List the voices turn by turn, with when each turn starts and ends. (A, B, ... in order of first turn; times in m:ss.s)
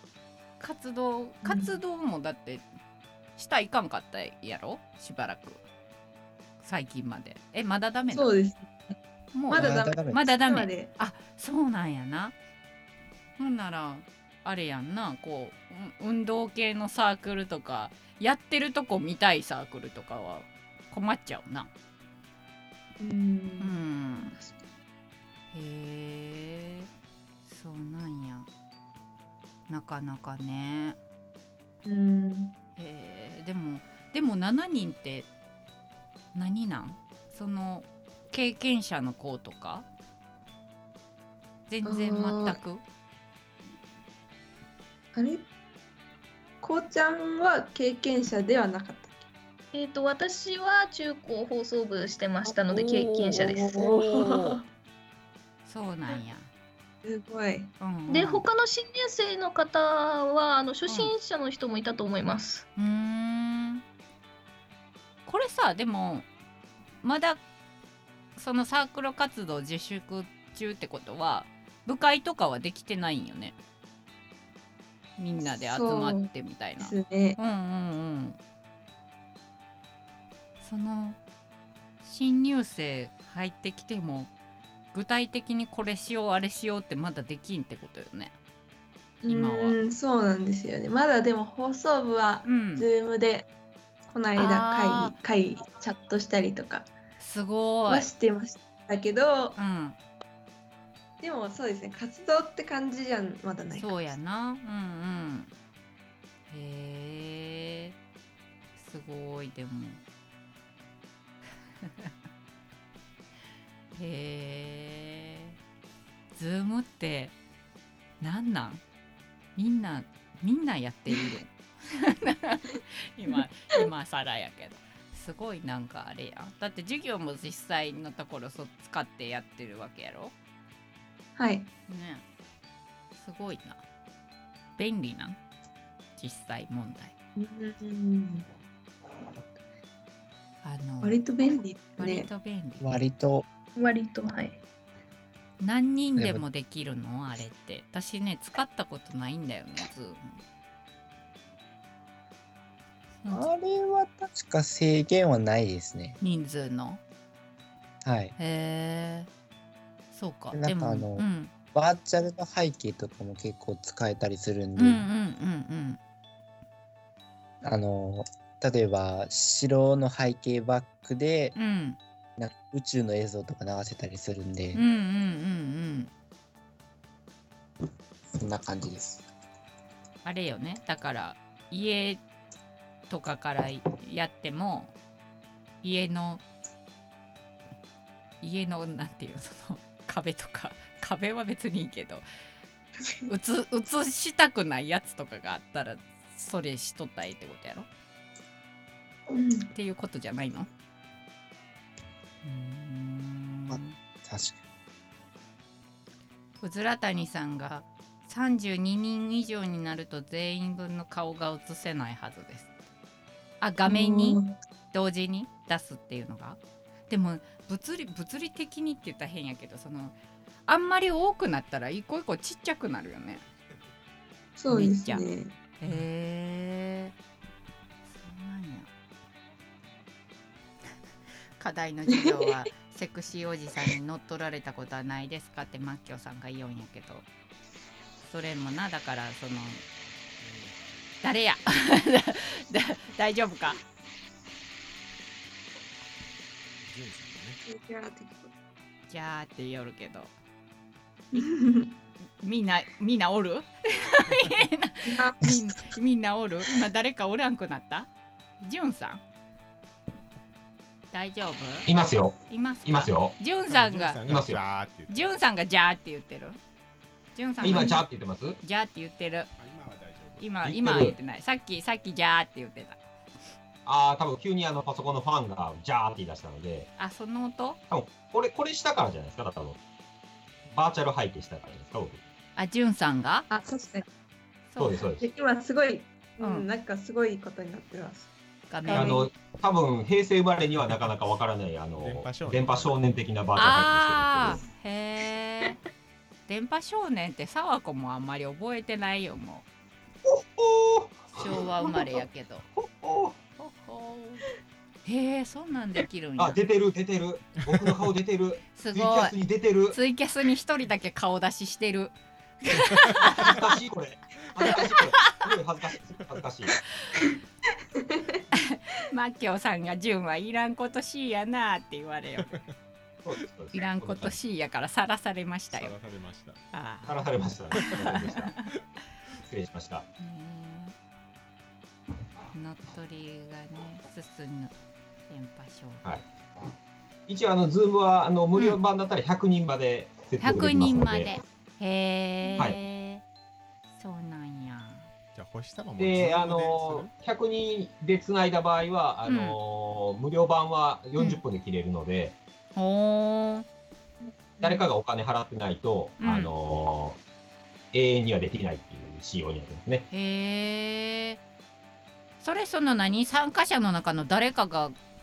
0:00.6-0:02.7 A
0:01.4-0:01.7 B
0:03.4-0:05.6 A
0:06.6-0:08.3 A
0:08.1-0:09.0 B
0:09.3-0:12.3 A
0:09.5-0:10.9 B
0:09.5-0:10.2 C
0:13.4-0:21.7 A
0:23.0-0:24.6 B
0:23.6-0:24.4 A
0:25.5-0:26.9 A
0:27.4-0:28.5 A
0:29.7-0:31.0 A
0:31.8-0:32.6 B
0:32.8-0:35.3 A
0:36.3-0:39.9 A
0:41.7-0:42.8 A
0:41.8-0:42.6 B
0:45.2-0:45.5 B
0:46.6-0:49.2 B
0:49.7-0:53.8 D
0:52.5-0:54.6 B
0:53.8-0:54.6 A
0:55.7-0:56.5 A
0:57.0-0:57.7 B
0:57.8-0:58.4 A
0:58.1-1:02.7 D
1:00.9-1:01.1 A
1:02.8-1:03.8 A
1:05.3-1:06.3 A
1:07.0-1:07.4 A
1:08.4-1:13.6 A
1:15.2-1:18.4 A
1:15.7-1:17.4 B
1:20.6-1:21.2 A
1:22.0-1:24.3 A
1:24.9-1:28.3 A
1:29.2-1:33.5 B
1:29.3-1:29.8 A
1:32.4-1:32.9 A
1:34.1-1:36.9 B
1:34.4-1:35.2 A
1:37.2-1:38.1 A
1:37.9-1:39.6 B
1:39.6-1:40.0 A
1:41.2-1:44.0 B
1:43.8-1:45.5 A
1:46.5-1:47.9 A
1:48.8-1:50.0 A
1:51.8-1:52.1 A
1:53.9-1:55.6 A
1:56.4-1:57.3 A
1:58.2-1:58.8 A
1:59.6-2:10.3 A
2:11.4-2:11.7 B
2:11.9-2:12.2 A
2:13.2-2:13.8 A
2:14.8-2:15.4 A
2:16.2-2:17.1 A
2:17.4-2:18.5 B
2:20.6-2:21.2 A
2:21.0-2:22.3 B
2:22.0-2:22.9 A
2:22.8-2:23.5 C
2:23.8-2:24.6 D
2:25.6-2:30.4 A
2:26.2-2:26.4 C
2:33.2-2:33.5 A
2:33.3-2:36.2 C
2:36.2-2:37.0 A
2:38.0-2:38.3 C
2:38.4-2:39.3 A
2:40.1-2:41.5 A
2:40.5-2:45.1 C
2:44.8-2:46.0 A
2:47.6-2:51.6 C
2:51.6-2:52.0 A
2:52.4-2:54.8 C
2:54.7-2:56.1 A
2:58.3-2:59.3 C
3:00.2-3:02.2 A
3:03.1-3:04.9 A
3:05.8-3:06.4 A
3:08.4-3:12.2 A
3:13.3-3:17.9 A
3:19.3-3:19.7 B
3:19.7-3:20.7 A
3:22.4-3:24.0 A
3:23.7-3:24.6 C
3:26.6-3:32.7 A
3:33.6-3:34.4 A
3:33.9-3:34.6 B
3:34.9-3:40.2 A
3:40.7-3:43.4 A
3:44.6-3:45.6 B
3:44.7-3:45.2 A
3:45.8-3:47.1 A
3:48.1-3:48.9 A
3:51.6-3:57.2 A
3:58.2-3:59.8 A
4:00.4-4:00.8 E
4:01.2-4:03.8 A
4:06.9-4:07.6 E
4:07.7-4:08.5 B
4:09.1-4:10.3 A
4:11.3-4:11.9 B
4:12.4-4:18.1 A
4:14.3-4:14.6 E
4:15.1-4:15.6 B
4:18.6-4:19.2 A
4:21.1-4:21.9 A
4:21.9-4:23.3 F
4:22.5-4:24.2 A
4:23.7-4:25.3 E
4:24.3-4:24.6 F
4:25.1-4:26.6 A
4:27.4-4:28.0 A
4:27.6-4:28.6 F
4:27.6-4:28.0 B
4:28.6-4:29.5 A
4:29.6-4:30.6 E
4:30.4-4:33.0 A
4:30.6-4:31.2 F
4:33.9-4:36.9 F
4:37.0-4:37.8 A
4:37.9-4:39.8 F
4:40.7-4:42.2 F
4:42.6-4:43.5 A
4:43.5-4:44.1 B
4:44.7-4:45.1 A
4:44.8-4:45.3 F
4:45.2-4:48.3 B
4:46.4-4:46.7 A
4:48.7-4:49.2 A
4:48.8-4:49.3 B
4:48.9-4:54.6 F
4:52.0-4:53.2 E
4:53.6-4:55.8 A
4:56.5-4:59.6 A
5:00.2-5:02.0 F
5:01.3-5:02.6 A
5:02.8-5:03.4 F
5:03.6-5:04.4 A
5:05.0-5:06.6 A
5:06.4-5:10.0 F
5:08.8-5:09.4 A
5:09.9-5:13.6 A
5:13.1-5:13.6 E
5:13.4-5:16.8 F
5:18.6-5:22.5 A
5:22.5-5:22.8 E
5:23.2-5:24.3 F
5:23.7-5:26.0 A
5:25.7-5:26.6 E
5:26.7-5:27.2 A
5:27.1-5:28.5 F
5:27.8-5:28.2 E
5:29.5-5:30.1 F
5:30.2-5:31.0 A
5:32.5-5:34.7 A
5:35.3-5:36.0 A
5:37.3-5:41.3 F
5:40.4-5:43.2 A
5:42.4-5:42.8 B
5:44.0-5:45.1 A
5:45.4-5:47.1 E
5:46.0-5:52.4 F
5:49.3-5:49.6 A
5:52.8-5:53.7 A
5:54.2-5:54.8 B
5:54.6-5:57.2 F
5:56.2-5:56.5 A
5:57.9-6:00.1 F
6:00.1-6:01.4 A
6:02.4-6:05.0 A